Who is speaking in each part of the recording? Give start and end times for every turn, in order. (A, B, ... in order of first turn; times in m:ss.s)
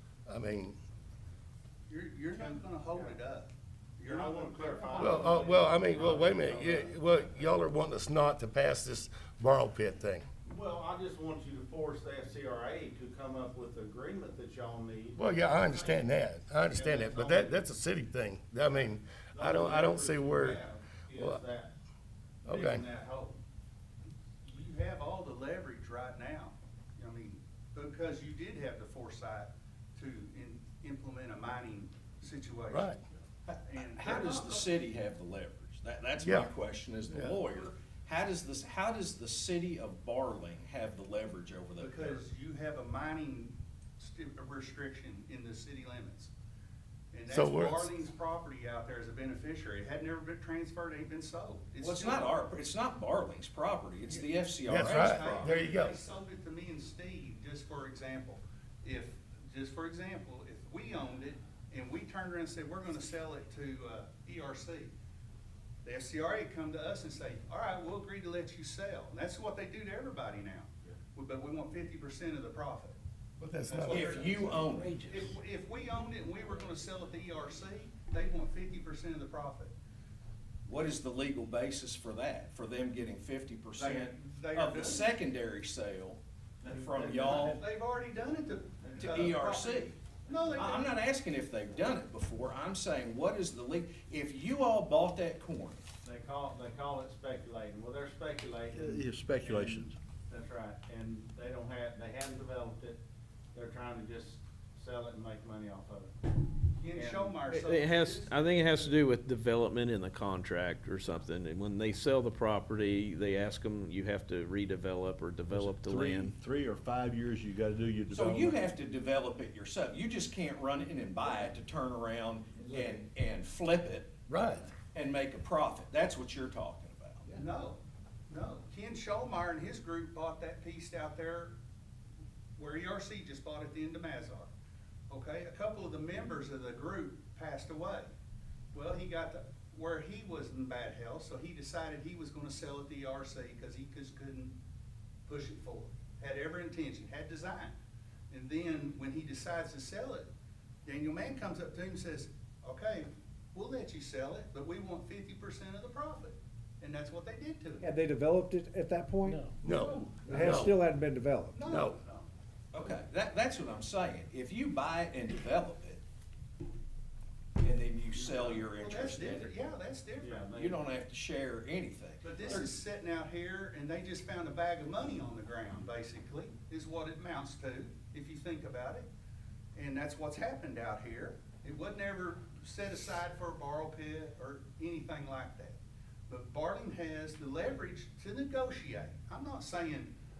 0:00.2-0:00.8 A
0:01.9-0:05.7 B
0:02.3-0:03.2 C
0:04.0-0:07.5 C
0:05.0-0:10.2 A
0:10.4-0:15.2 C
0:15.2-0:20.6 A
0:16.7-0:17.6 C
0:19.3-0:21.7 C
0:21.1-0:21.4 A
0:22.4-0:22.8 A
0:22.5-0:23.3 C
0:22.6-0:23.1 B
0:24.4-0:32.9 B
0:32.7-0:33.0 A
0:33.5-0:34.7 B
0:33.8-0:42.2 D
0:36.2-0:36.5 A
0:37.1-0:37.4 A
0:41.8-0:46.3 B
0:47.1-0:52.4 B
0:47.3-0:47.9 A
0:51.8-0:55.6 D
0:54.7-0:56.0 A
0:54.9-1:04.9 B
1:05.8-1:13.0 B
1:13.4-1:14.4 A
1:13.7-1:19.7 B
1:13.9-1:15.3 D
1:20.7-1:27.6 D
1:23.8-1:25.1 B
1:26.6-1:27.6 C
1:27.4-1:30.9 B
1:28.8-1:29.3 C
1:29.0-1:30.0 D
1:30.5-1:35.8 D
1:36.0-1:43.0 C
1:38.7-1:39.9 E
1:43.5-1:46.1 C
1:46.8-1:48.3 B
1:46.9-1:47.4 C
1:47.5-1:56.4 F
1:55.5-1:58.6 E
1:58.1-2:04.1 D
2:04.3-2:04.7 A
2:04.8-2:07.3 D
2:07.3-2:11.5 B
2:12.6-2:14.5 B
2:15.1-2:18.1 B
2:18.7-2:24.5 B
2:25.3-2:27.7 B
2:28.3-2:30.3 B
2:30.8-2:37.9 B
2:37.8-2:39.6 G
2:39.3-2:39.6 F
2:39.6-2:40.8 A
2:39.8-2:40.5 B
2:40.2-2:41.6 G
2:41.5-2:42.3 B
2:41.6-2:42.0 A
2:42.7-2:46.0 D
2:47.6-2:49.5 D
2:48.8-2:50.5 B
2:50.2-2:50.8 C
2:50.6-2:52.7 D
2:52.2-2:59.1 B
2:59.8-3:05.8 B
3:06.3-3:10.1 B